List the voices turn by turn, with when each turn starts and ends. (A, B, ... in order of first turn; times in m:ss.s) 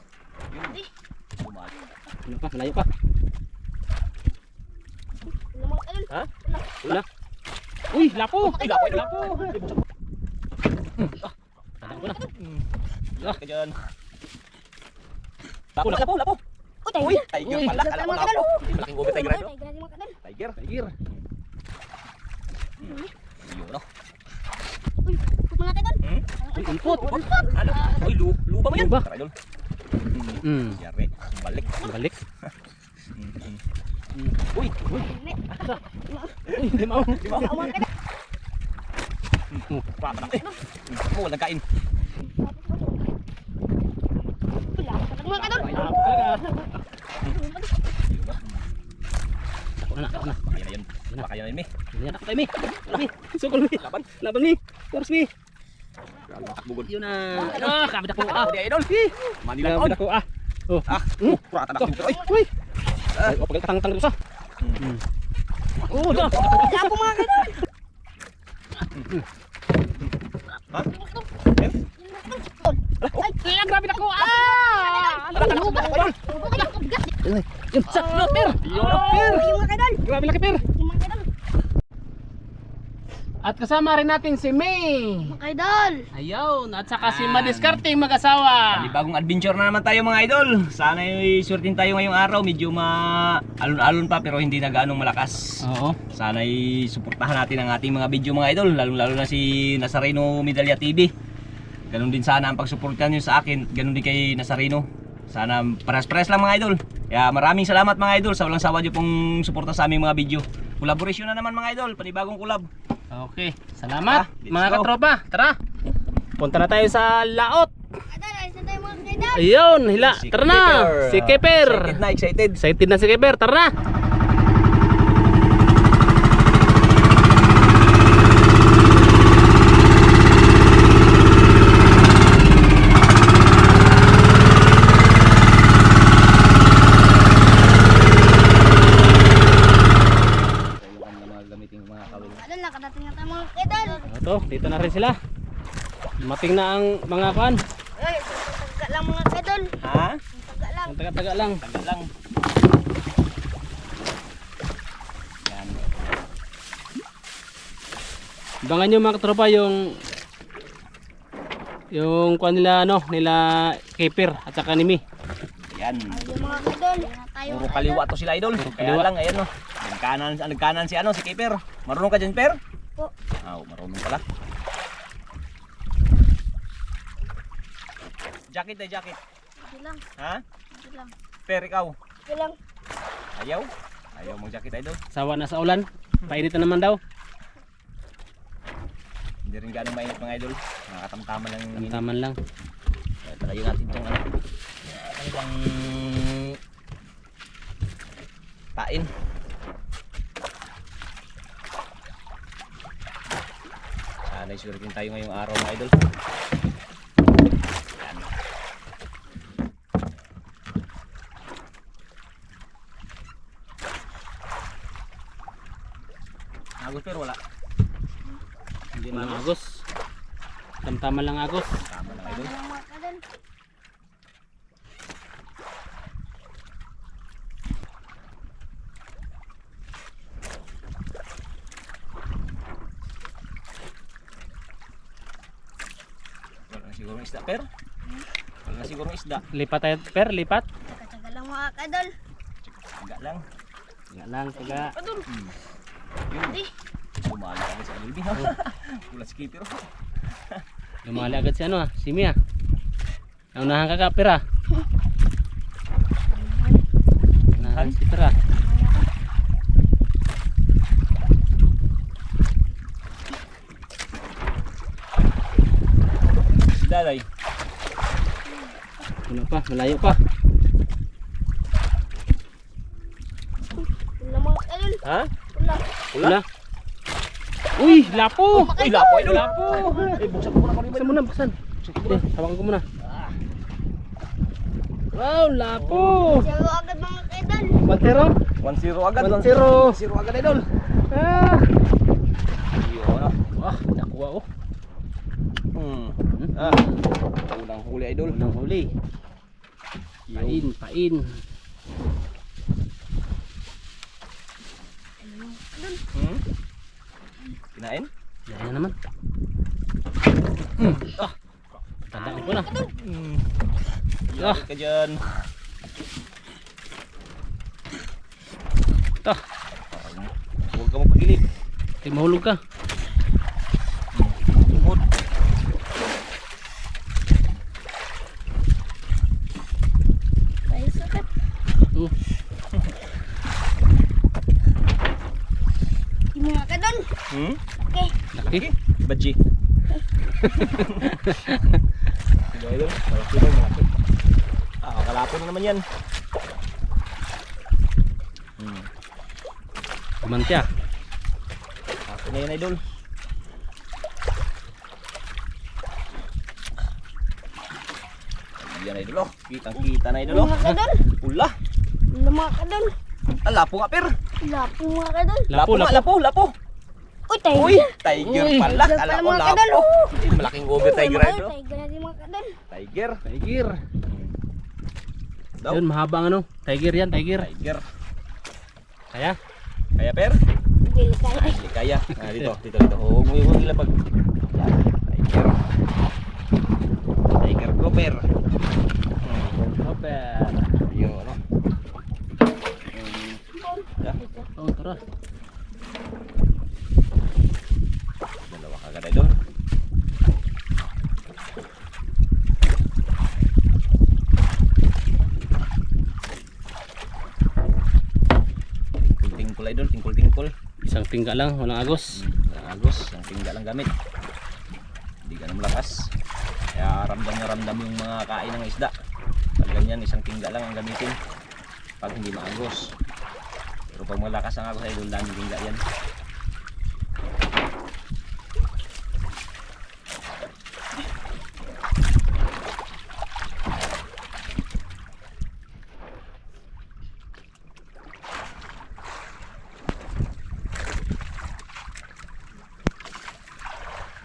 0:00.5-0:00.8 A
0:01.4-0:01.9 A
0:02.2-0:02.9 B
0:05.4-0:06.8 C
0:07.9-0:09.5 B
0:07.9-0:09.6 C
0:08.5-0:09.7 A
0:11.8-0:12.2 B
0:11.9-0:12.3 C
0:12.2-0:13.8 A
0:15.7-0:16.4 A
0:16.8-0:20.2 C
0:17.0-0:19.5 A
0:17.4-0:17.8 B
0:20.2-0:20.6 A
0:20.6-0:20.9 B
0:22.8-0:23.9 A
0:22.8-0:23.1 C
0:25.0-0:28.1 C
0:26.5-0:27.3 B
0:27.5-0:29.3 A
0:28.7-0:29.0 B
0:30.1-0:31.9 A
0:30.4-0:30.8 B
0:31.8-0:32.2 B
0:33.1-0:33.6 A
0:34.1-0:35.0 B
0:34.5-0:35.0 A
0:35.0-0:36.4 C
0:36.5-0:37.8 A
0:36.5-0:37.7 B
0:37.2-0:37.9 C
0:39.5-0:41.6 A
0:40.1-0:40.6 C
0:42.4-0:43.0 C
0:44.7-0:46.7 C
0:45.3-0:46.3 A
0:45.6-0:46.4 B
0:47.2-0:47.8 C
0:48.0-0:48.6 A
0:49.9-0:50.4 B
0:50.4-0:51.7 A
0:51.9-0:55.3 B
0:53.7-0:54.1 A
0:56.2-1:00.0 A
0:56.8-0:58.5 B
0:59.6-1:02.5 B
1:00.9-1:02.2 A
1:01.9-1:02.4 C
1:03.1-1:03.4 A
1:03.2-1:04.2 B
1:04.6-1:04.8 A
1:05.9-1:07.0 B
1:06.0-1:06.7 A
1:06.1-1:07.6 C
1:10.9-1:13.4 C
1:13.0-1:13.3 A
1:13.3-1:16.7 B
1:13.9-1:17.1 C
1:15.3-1:16.2 A
1:17.2-1:20.6 B
1:17.9-1:20.0 C
1:18.6-1:19.4 A
1:20.6-1:21.3 C
1:23.4-1:25.4 B
1:25.2-1:26.1 C
1:26.1-1:28.9 B
1:27.0-1:27.8 A
1:28.7-1:41.1 A
1:35.6-1:36.0 B
1:41.9-1:52.7 A
1:53.1-1:55.6 B
1:54.0-1:54.9 A
1:56.4-1:57.7 B
1:58.1-1:59.5 C
1:59.3-2:02.0 B
1:59.8-2:02.6 A
2:02.6-2:03.7 B
2:20.1-2:22.4 A
2:22.1-2:24.0 C
2:24.0-2:25.2 B
2:26.2-2:27.6 B
2:28.0-2:29.7 C
2:29.8-2:30.2 A
2:30.3-2:31.0 C
2:30.9-2:31.6 B
2:31.6-2:32.1 A
2:35.4-2:35.9 A
2:38.6-2:40.0 B
2:41.9-2:45.0 B
2:45.7-2:46.3 A
2:46.1-2:48.0 C
2:47.5-2:52.6 A
2:48.6-2:49.1 B
2:53.4-2:54.2 A
2:58.5-2:59.2 A
2:59.6-3:00.0 C
3:00.2-3:00.4 A
3:00.7-3:01.1 C
3:01.5-3:02.0 A
3:02.2-3:02.6 C
3:03.3-3:05.0 A
3:05.1-3:07.0 B
3:09.4-3:12.0 A
3:11.8-3:12.4 B
3:13.2-3:14.3 A
3:14.8-3:16.6 A
3:18.8-3:19.1 A
3:24.2-3:26.1 A
3:28.0-3:28.3 A
3:36.8-3:37.4 A
3:39.0-3:39.8 B
3:39.0-3:39.5 A
3:40.8-3:41.8 B
3:41.8-3:42.5 A
3:42.0-3:43.2 C
3:56.7-3:57.7 A
3:58.6-3:59.4 A
3:59.5-4:00.6 B
4:00.9-4:02.1 C
4:02.6-4:03.4 A
4:04.1-4:04.9 B
4:04.6-4:05.3 C
4:05.2-4:05.5 A
4:06.3-4:06.6 A
4:07.2-4:11.5 A
4:11.0-4:12.4 B
4:13.5-4:14.4 B
4:16.3-4:16.8 C
4:17.6-4:18.4 B
4:17.6-4:18.0 A
4:18.5-4:19.0 C
4:26.7-4:27.2 A
4:28.4-4:28.8 C
4:29.3-4:30.2 B
4:34.2-4:35.8 C
4:35.0-4:35.3 A
4:36.1-4:36.4 A
4:36.2-4:36.4 B
4:37.8-4:40.2 B
4:37.8-4:40.4 C
4:38.7-4:41.2 A
4:40.9-4:42.8 B
4:41.8-4:42.3 A
4:43.0-4:43.4 A
4:45.1-4:46.5 B
4:45.8-4:46.3 A
4:46.2-4:48.2 C
4:47.8-4:48.3 B
4:48.6-4:50.7 A
4:49.2-4:50.0 B
4:51.1-4:51.7 B
4:52.7-4:53.4 A
4:53.6-4:54.4 B
4:55.7-4:56.8 A
4:56.3-4:57.0 B
4:57.4-4:58.4 A
4:58.3-4:58.9 B
5:00.3-5:00.7 A
5:00.3-5:01.4 B
5:05.2-5:06.0 C
5:06.1-5:06.4 A
5:07.7-5:08.1 A
5:08.5-5:08.9 B
5:10.8-5:11.1 B
5:10.8-5:13.7 A
5:12.1-5:12.7 B
5:12.2-5:12.9 C
5:14.3-5:15.3 A
5:14.4-5:14.6 B
5:19.9-5:21.4 A
5:22.0-5:22.6 B
5:24.1-5:25.1 A
5:30.7-5:31.3 C
5:36.3-5:37.1 C
5:37.3-5:37.6 A
5:37.8-5:38.1 C
5:38.3-5:38.6 B
5:38.4-5:39.4 A
5:40.4-5:41.8 B
5:40.7-5:41.1 A
5:42.4-5:43.9 A
5:44.8-5:45.8 A
5:48.6-5:48.9 A
5:50.2-5:50.7 B
5:52.1-5:52.8 A
5:58.6-6:00.6 A
6:00.2-6:01.1 C
6:01.2-6:01.6 A
6:02.1-6:02.9 C
6:03.4-6:04.1 A
6:04.4-6:05.5 C
6:05.5-6:06.0 B
6:05.5-6:06.5 A
6:07.3-6:10.2 C
6:07.5-6:11.5 A
6:08.1-6:08.8 B
6:10.7-6:12.6 C
6:12.7-6:13.2 A
6:13.2-6:13.8 B
6:14.1-6:14.3 A
6:15.6-6:15.8 A
6:15.7-6:17.5 B
6:17.3-6:17.8 A
6:19.1-6:19.4 B
6:20.0-6:20.4 A
6:20.8-6:21.6 C
6:21.3-6:23.9 A
6:24.5-6:25.6 A
6:27.4-6:28.3 A
6:29.2-6:29.6 A
6:29.6-6:30.6 B
6:30.8-6:31.4 A
6:32.9-6:33.4 A
6:33.5-6:34.5 C
6:34.6-6:35.0 B
6:38.5-6:39.4 A
6:49.0-6:50.5 A
6:50.8-6:52.2 B
6:52.1-6:53.9 A
6:55.2-6:56.1 A
6:56.7-6:58.9 A
6:59.6-7:01.2 A
7:02.0-7:02.9 A
7:03.9-7:05.8 A